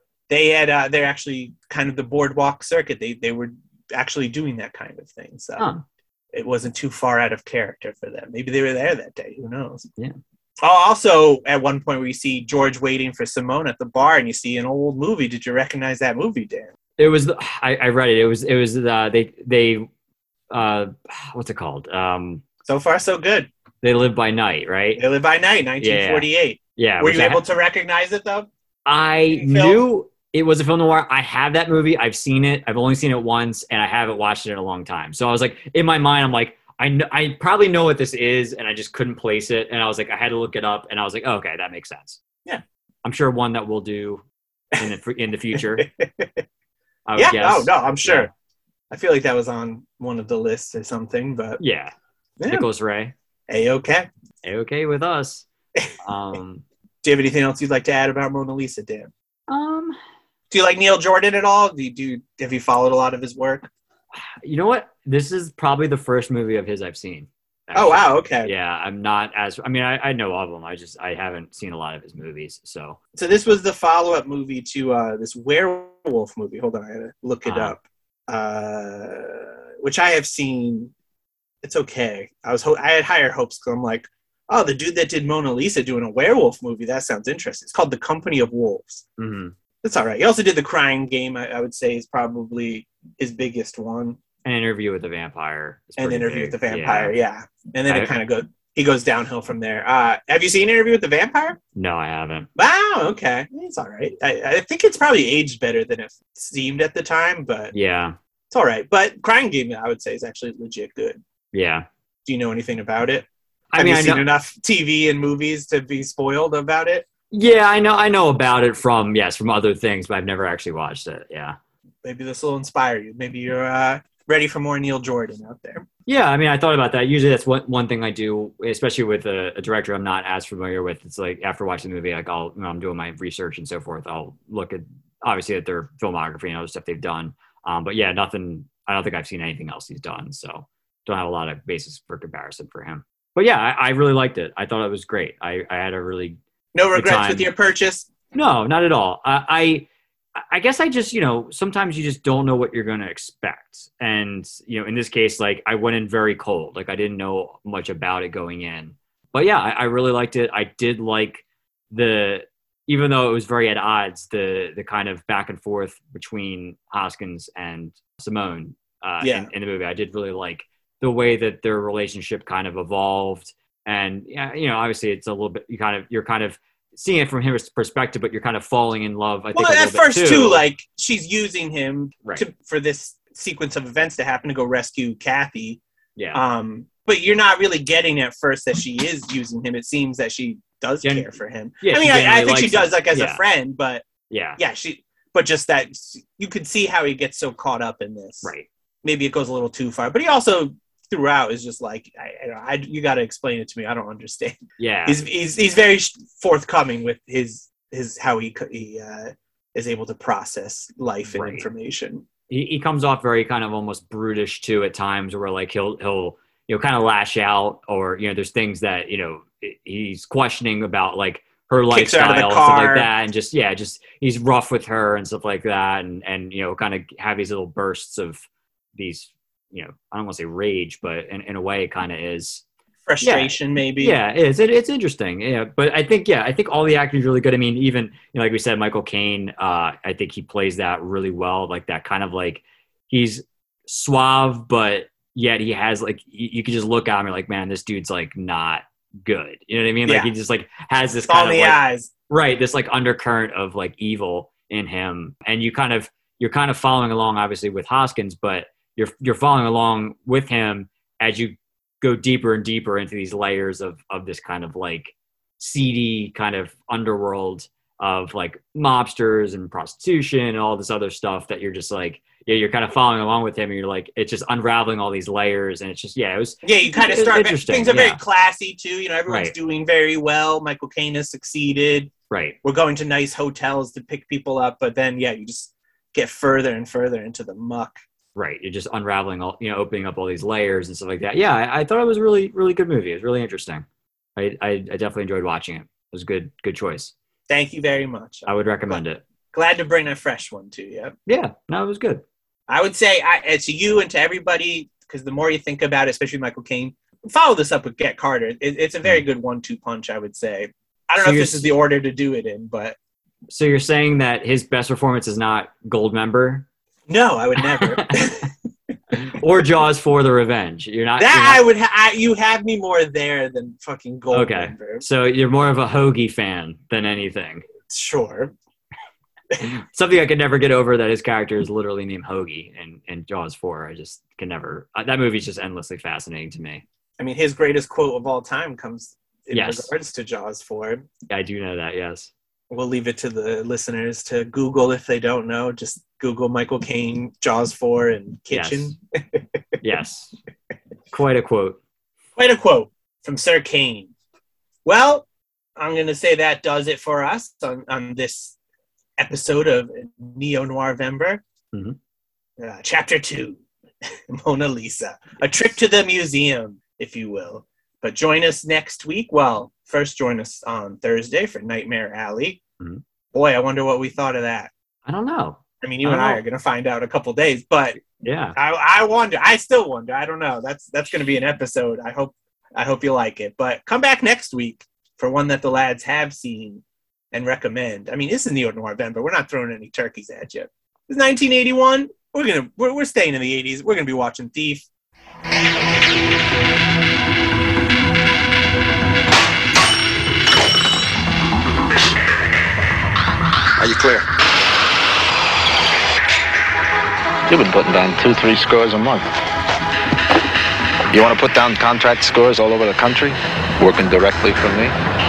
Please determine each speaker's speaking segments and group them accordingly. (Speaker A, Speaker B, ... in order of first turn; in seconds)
Speaker A: 0.3-5.7, 6.3-9.9, 10.6-16.7, 22.6-23.5, 25.0-28.5, 29.3-29.8, 45.5-46.4, 47.2-48.3, 48.9-51.6, 52.4-52.7, 53.5-54.1, 57.0-59.1, 60.5-63.7, 67.7-68.5, 73.2-80.9, 81.6-89.0, 89.8-94.2, 96.0-101.6, 102.6-107.7, 108.5-111.2, 112.3-117.1, 122.0-125.9, 146.7-148.1, 169.2-169.5, 179.5-185.8, 186.3-194.1, 194.6-198.5, 199.0-212.2, 221.9-223.1, 233.1-234.2, 250.1-250.3, 251.3-252.1, 276.6-282.1, 282.6-288.0, 297.5-299.0, 299.5-301.1, 302.7-313.0, 317.1-318.5, 321.2-325.0, 327.9-328.5, 337.2-341.1, 342.7-349.4, 352.4-354.1, 354.9-355.3, 355.8-358.6, 359.2-361.4, 362.6-363.6, 364.3-372.6, 373.3-374.7, 375.8-378.0, 378.6-394.9
Speaker B: 5.6-5.8, 17.0-19.9, 20.5-22.4, 23.8-25.0, 25.8-27.4, 28.9-42.2, 43.0-44.2, 44.8-45.9, 47.1-48.3, 51.6-51.9, 52.5-53.1, 54.4-55.5, 56.0-56.6, 59.5-60.0, 64.1-73.0, 77.5-77.8, 89.2-89.5, 94.5-97.1, 97.9-98.2, 101.8-102.5, 107.7-108.2, 111.5-111.8, 113.7-114.3, 117.3-121.6, 126.1-146.4, 146.9-147.5, 148.3-149.9, 150.4-180.6, 186.2-186.4, 191.0-193.4, 194.3-194.6, 198.4-198.7, 204.8-205.2, 211.3-211.7, 212.5-228.4, 229.0-232.6, 233.2-278.2, 279.3-279.6, 282.3-282.6, 288.4-293.9, 294.4-297.1, 298.5-299.2, 301.3-302.2, 311.2-311.7, 313.5-316.7, 317.7-318.2, 319.1-321.6, 324.3-327.6, 329.6-336.8, 339.5-339.9, 341.3-342.3, 348.5-349.0, 349.8-350.3, 351.1-351.8, 375.1-376.4, 378.1-378.6
Speaker C: 407.5-409.3, 411.1-414.9